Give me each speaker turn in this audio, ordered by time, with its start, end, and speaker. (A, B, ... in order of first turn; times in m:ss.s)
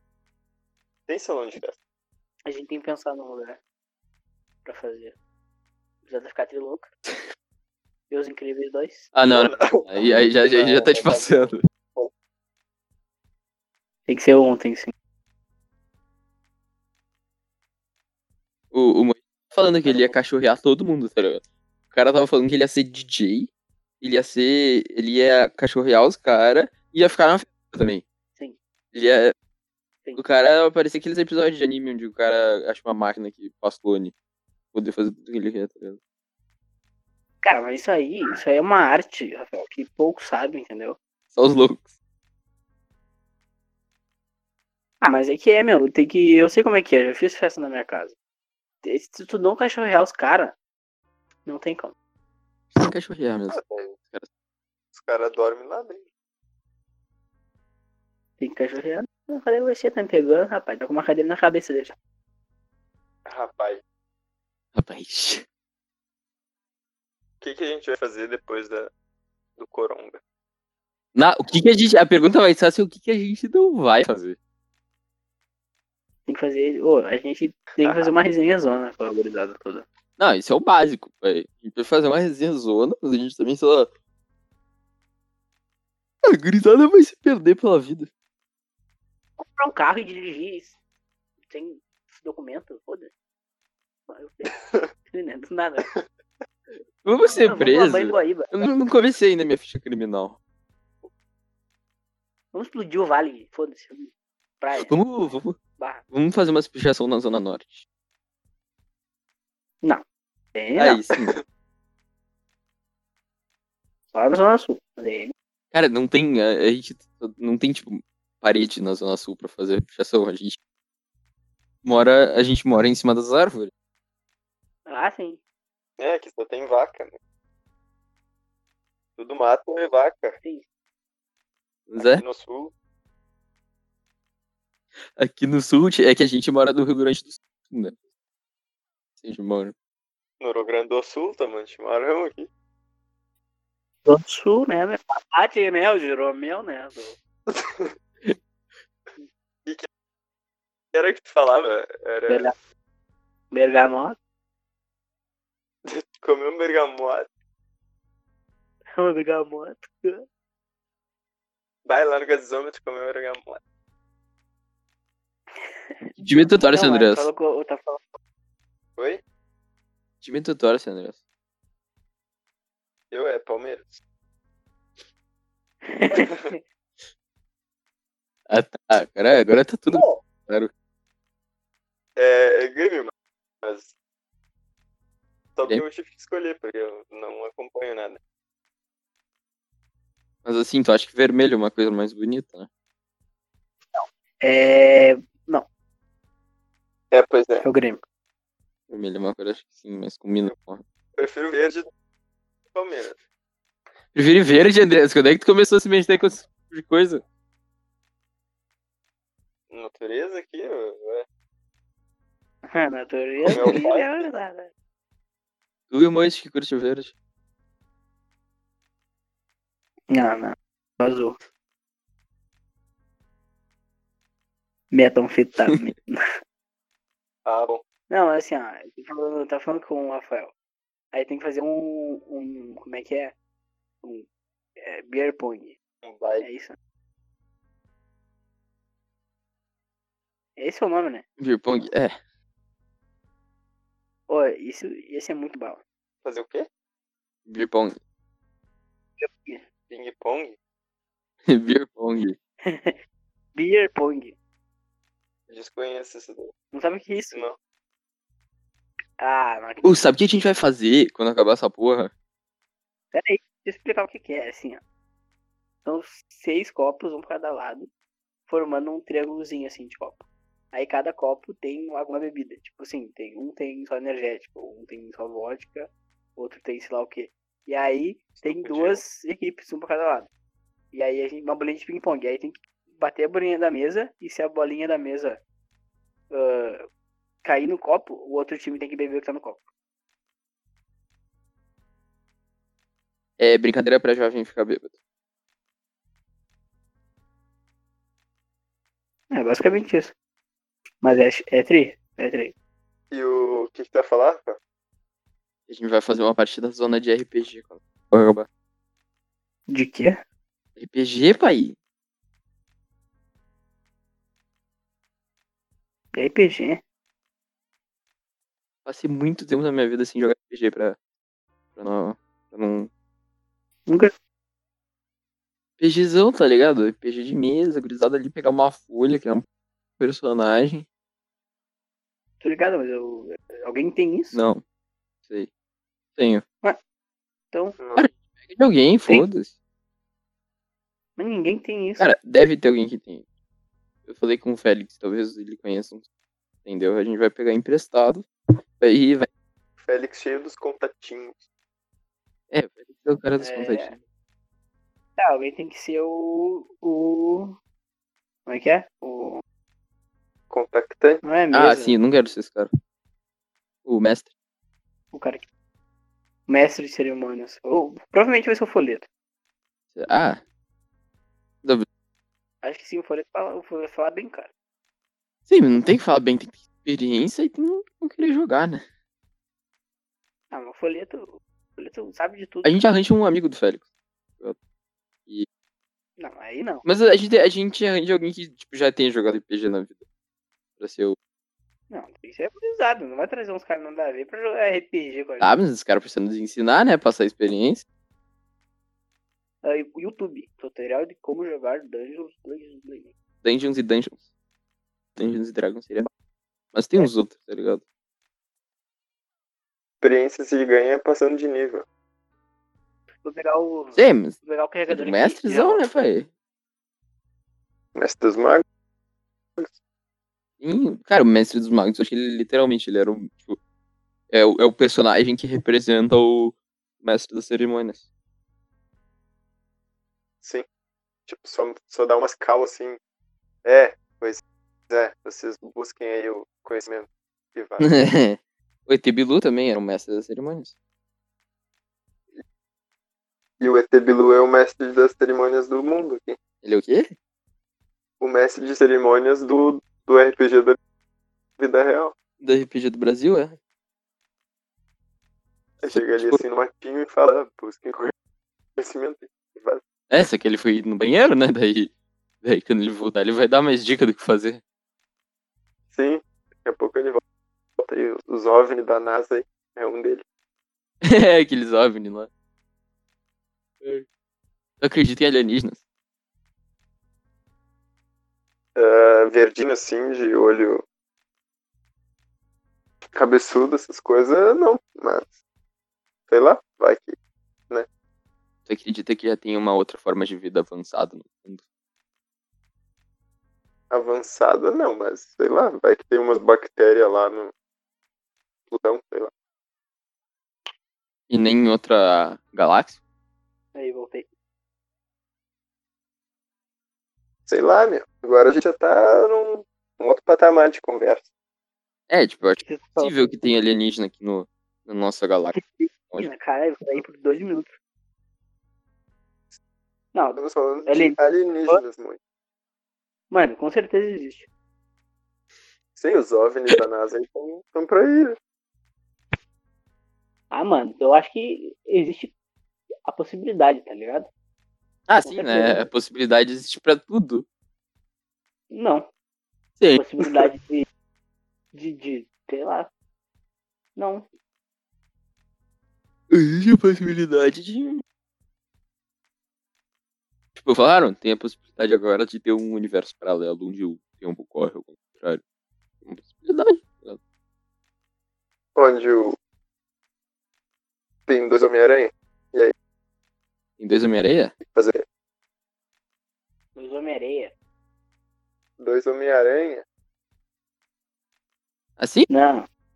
0:01.1-0:01.8 A
0:02.5-0:03.6 B
0:04.6-0:05.2 B
0:06.0-0:06.9 B
0:08.1-0:09.1 B
0:09.1-0:11.6 C
0:09.3-0:12.1 A
0:14.1-0:14.9 B
0:18.7-0:23.5 C
0:19.9-0:20.1 A
0:24.0-0:28.0 C
0:28.9-0:29.3 C
0:30.2-0:34.1 C
0:34.7-0:36.0 C
0:37.4-0:41.0 B
0:41.3-0:41.9 C
0:45.0-0:48.2 B
0:48.8-0:50.6 B
0:51.5-0:51.9 B
0:52.7-0:54.3 C
0:53.5-0:54.0 A
0:54.9-0:56.1 A
0:58.4-1:02.0 B
1:03.3-1:03.8 A
1:04.8-1:05.4 C
1:07.4-1:08.9 A
1:09.6-1:10.2 A
1:11.2-1:14.4 C
1:16.3-1:19.9 B
1:17.8-1:18.1 A
1:20.2-1:23.9 C
1:26.3-1:28.1 C
1:29.4-1:30.8 B
1:31.5-1:33.1 B
1:34.1-1:35.9 B
1:37.0-1:40.4 C
1:37.4-1:38.6 B
1:42.5-1:45.0 B
1:44.7-1:45.6 C
1:45.8-1:46.0 B
1:46.1-1:47.8 C
1:50.6-1:51.0 B
1:50.8-1:51.4 C
1:54.1-1:55.3 B
1:55.7-2:00.6 C
2:01.8-2:03.7 C
2:04.9-2:05.4 B
2:06.0-2:07.2 A
2:09.2-2:10.4 A
2:11.9-2:12.2 C
2:12.0-2:12.7 A
2:15.2-2:18.0 C
2:19.2-2:19.7 C
2:20.4-2:22.5 A
2:24.0-2:27.2 B
2:27.5-2:27.9 A
2:30.9-2:32.5 A
2:32.3-2:32.5 B
2:33.5-2:34.2 B
2:35.9-2:37.3 A
2:39.0-2:40.2 B
2:41.9-2:43.6 A
2:45.6-2:48.1 B
2:46.2-2:47.3 C
2:50.2-2:51.2 C
2:53.1-2:54.0 A
2:55.8-2:56.6 B
2:58.5-3:00.7 C
2:59.9-3:00.2 A
3:02.2-3:03.9 A
3:05.6-3:08.2 A
3:10.4-3:12.7 C
3:13.9-3:15.7 B
3:17.1-3:17.6 A
3:17.6-3:18.0 B
3:18.9-3:20.8 C
3:21.2-3:21.9 A
3:22.7-3:23.2 A
3:24.1-3:27.2 C
3:29.7-3:31.3 A
3:32.7-3:34.7 B
3:33.4-3:34.3 A
3:35.9-3:37.1 C
3:40.1-3:41.4 B
3:44.9-3:46.2 B
3:47.5-3:47.8 A
3:48.1-3:50.5 B
3:51.1-3:53.4 B
3:54.0-3:55.8 B
3:56.0-3:56.4 A
3:56.4-3:56.8 B
4:00.6-4:01.2 B
4:01.4-4:02.2 C
4:04.3-4:05.8 B
4:06.2-4:06.7 A
4:07.5-4:08.0 C
4:09.2-4:09.6 B
4:09.9-4:10.6 A
4:11.5-4:12.4 C
4:12.6-4:13.0 B
4:13.6-4:14.4 B
4:15.5-4:16.5 A
4:16.7-4:17.5 B
4:19.2-4:20.0 B
4:19.8-4:22.1 C
4:23.1-4:24.8 B
4:25.8-4:27.9 B
4:28.5-4:40.3 B
4:38.4-4:39.0 A
4:40.9-4:45.4 B
4:46.3-4:46.9 B
4:47.4-4:49.7 B
4:53.4-4:55.0 C
4:59.3-5:00.1 B
5:01.0-5:02.5 B
5:03.1-5:04.6 A
5:05.7-5:08.5 C
5:09.7-5:10.2 B
5:10.8-5:11.8 C
5:16.2-5:16.8 B
5:18.9-5:21.0 C
5:21.8-5:22.9 C
5:25.8-5:29.5 C
5:30.0-5:30.9 C
5:32.4-5:34.4 B
5:34.3-5:34.6 C
5:36.2-5:36.4 C
5:37.5-5:37.8 B
5:37.8-5:38.1 A
5:38.0-5:39.5 C
5:41.2-5:42.1 B
5:42.0-5:43.2 C
5:44.1-5:46.1 C
5:46.6-5:48.3 C
5:48.8-5:49.3 C
5:49.8-5:51.4 A
5:52.5-5:54.0 C
5:53.4-5:53.9 B
5:55.2-5:57.6 B
5:58.5-5:59.4 B
6:00.5-6:01.2 A
6:01.2-6:02.0 B
6:01.5-6:02.7 C
6:03.8-6:04.3 C
6:05.1-6:05.5 B
6:06.5-6:09.1 B
6:10.0-6:10.4 C
6:12.6-6:14.5 B
6:15.5-6:18.8 C
6:20.5-6:22.8 B
6:22.6-6:23.9 C
6:26.2-6:26.8 B
6:26.8-6:30.0 C
6:30.8-6:31.2 C
6:31.9-6:35.6 B
6:35.4-6:37.8 C
6:39.6-6:43.1 B
6:43.4-6:44.2 C
6:45.2-6:46.1 C
6:46.7-6:47.8 C
6:50.0-6:51.8 A
6:53.2-6:55.9 B
6:54.0-6:54.4 C
6:54.9-6:56.3 C
6:58.0-6:58.6 A
7:00.6-7:03.6 C
7:04.3-7:08.1 C
7:11.3-7:13.0 A
7:13.6-7:17.9 A
7:17.8-7:20.7 C
7:23.6-7:26.4 A
7:26.6-7:27.1 C
7:28.2-7:30.8 A
7:31.6-7:32.1 A
7:32.4-7:33.6 C
7:35.8-7:38.1 A
7:35.9-7:36.4 C
7:38.8-7:39.8 A
7:40.1-7:44.6 C
7:45.9-7:47.2 A
7:47.8-7:50.2 A
7:51.0-7:52.3 C
7:53.8-7:54.1 C
7:54.8-7:55.8 C
7:58.8-8:00.8 A
8:03.2-8:05.3 A
8:06.3-8:07.2 A
8:08.7-8:11.6 C
8:13.9-8:17.5 A
8:18.7-8:19.3 A
8:21.3-8:23.0 C
8:23.8-8:24.3 B
8:27.5-8:31.3 A
8:32.1-8:35.6 C
8:32.6-8:33.2 B
8:35.6-8:37.7 B
8:40.2-8:41.8 B
8:40.4-8:42.2 A
8:43.3-8:44.5 B
8:46.0-8:48.4 A
8:50.5-8:52.3 B
8:53.1-8:54.3 B
8:55.1-8:57.4 C
8:55.3-8:55.9 B
8:58.7-8:59.1 B
8:59.8-9:00.5 C
9:00.0-9:00.9 B
9:01.7-9:02.9 B
9:04.0-9:04.3 B
9:06.3-9:08.0 C
9:10.6-9:15.4 C
9:16.0-9:17.2 C
9:18.8-9:19.4 A
9:21.3-9:22.7 A
9:23.8-9:24.5 C
9:24.6-9:25.0 A
9:26.8-9:27.5 B
9:28.8-9:29.8 A
9:32.0-9:32.3 C
9:32.3-9:32.7 B